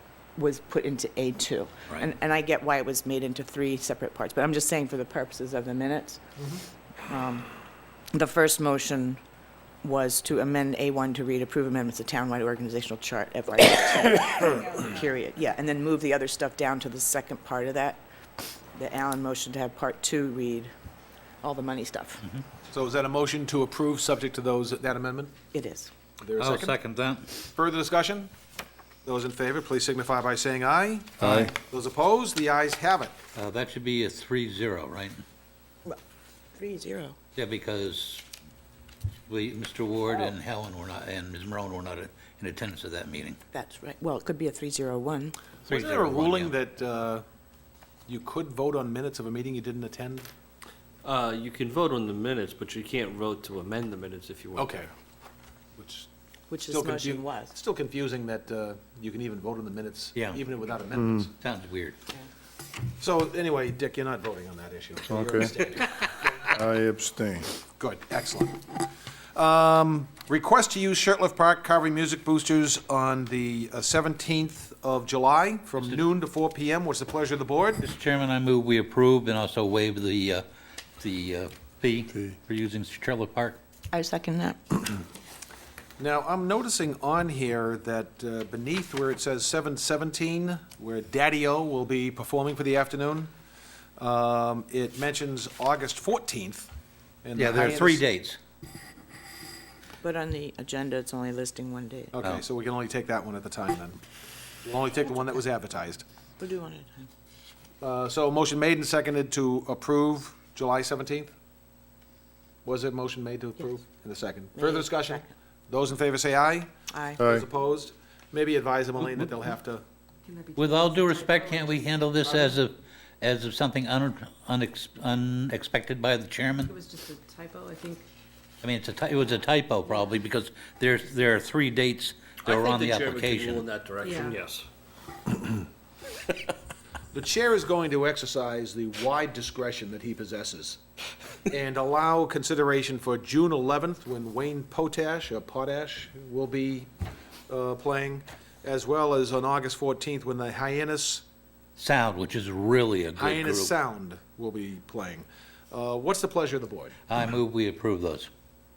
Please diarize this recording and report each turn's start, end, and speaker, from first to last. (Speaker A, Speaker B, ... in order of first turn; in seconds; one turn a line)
Speaker A: 0.4-6.2
Speaker A: 7.1-7.5
Speaker A: 8.1-9.2
Speaker A: 9.8-18.0
Speaker A: 18.8-20.7
Speaker A: 21.4-22.2
Speaker B: 22.7-25.3
Speaker A: 25.5-25.9
Speaker B: 26.2-26.8
Speaker C: 26.4-27.3
Speaker B: 27.6-28.3
Speaker B: 29.1-33.2
Speaker D: 31.2-31.5
Speaker C: 31.2-31.5
Speaker C: 33.4-35.2
Speaker A: 36.5-37.2
Speaker C: 37.4-38.2
Speaker C: 39.3-43.4
Speaker A: 43.5-45.4
Speaker B: 45.7-47.2
Speaker C: 45.7-46.5
Speaker B: 48.1-50.3
Speaker E: 51.0-54.8
Speaker B: 54.5-54.9
Speaker B: 55.8-56.1
Speaker A: 56.5-57.5
Speaker B: 56.7-61.3
Speaker C: 60.1-60.4
Speaker D: 61.0-61.3
Speaker C: 61.4-62.0
Speaker B: 63.0-66.1
Speaker D: 65.1-65.5
Speaker D: 66.5-67.5
Speaker B: 67.8-68.6
Speaker B: 69.3-77.8
Speaker C: 77.8-80.5
Speaker C: 81.0-83.6
Speaker A: 83.9-84.8
Speaker B: 86.0-93.3
Speaker B: 94.0-96.7
Speaker B: 97.2-98.0
Speaker C: 97.4-98.4
Speaker A: 100.0-102.1
Speaker B: 102.1-104.0
Speaker B: 104.6-106.0
Speaker A: 106.4-107.1
Speaker B: 107.8-111.3
Speaker B: 112.7-119.8
Speaker A: 114.6-115.2
Speaker A: 116.9-117.2
Speaker D: 117.2-117.5
Speaker F: 120.3-121.8
Speaker C: 120.6-126.7
Speaker F: 126.6-128.1
Speaker C: 128.6-133.7
Speaker E: 132.4-134.7
Speaker F: 134.0-134.4
Speaker E: 135.3-135.6
Speaker B: 137.1-140.8
Speaker B: 141.5-146.9
Speaker B: 147.5-151.2
Speaker C: 151.8-153.7
Speaker B: 153.2-156.9
Speaker C: 157.1-158.3